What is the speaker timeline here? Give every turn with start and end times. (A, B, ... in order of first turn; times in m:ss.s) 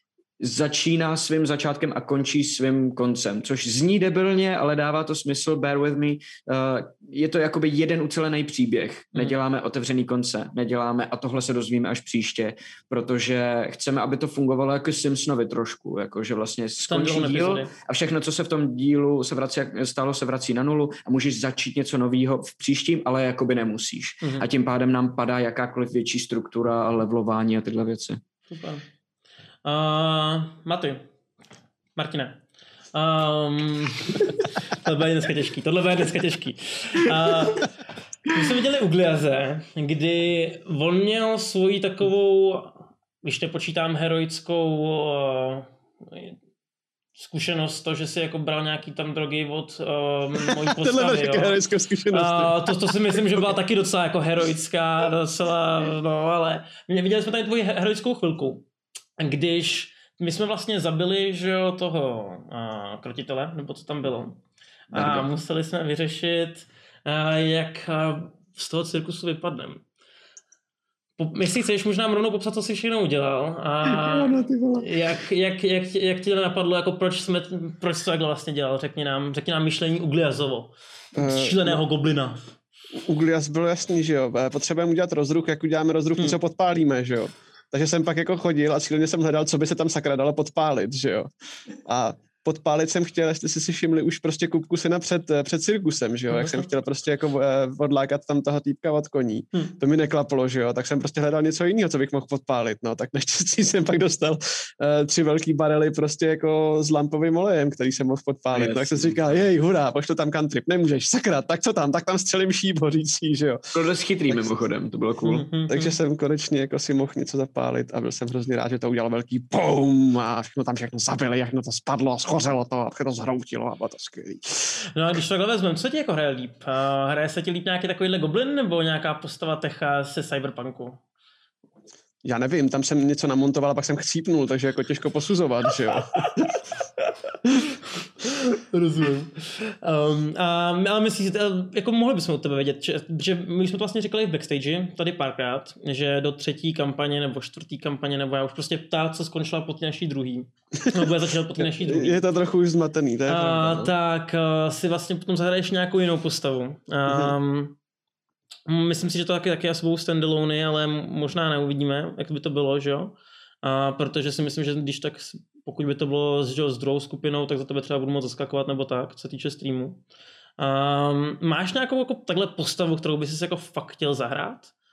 0:00.4-0:28.2 A
0:16.9-0:17.7 B
0:28.5-0:28.8 B
0:29.6-0:31.0 B
0:32.0-0:32.4 B
0:32.9-0:37.7 B
0:38.3-0:46.4 B
0:47.2-0:51.6 B
0:50.4-0:53.5 C
0:52.1-0:58.6 B
0:59.2-1:04.4 B
1:04.9-1:09.8 B
1:04.9-1:05.3 A
1:11.2-1:22.4 B
1:13.9-1:14.9 A
1:21.2-1:21.8 C
1:23.0-1:31.3 C
1:31.8-1:53.6 C
1:36.3-1:36.6 B
1:48.5-1:49.2 A
1:53.7-1:55.4 A
1:55.2-1:56.0 B
1:55.7-2:04.8 C
2:04.9-2:11.0 B
2:12.2-2:16.3 C
2:16.2-2:17.1 B
2:18.2-2:32.2 B
2:30.8-2:33.9 C
2:33.3-2:37.8 B
2:37.1-2:37.4 C
2:38.7-2:50.0 B
2:50.6-2:54.7 B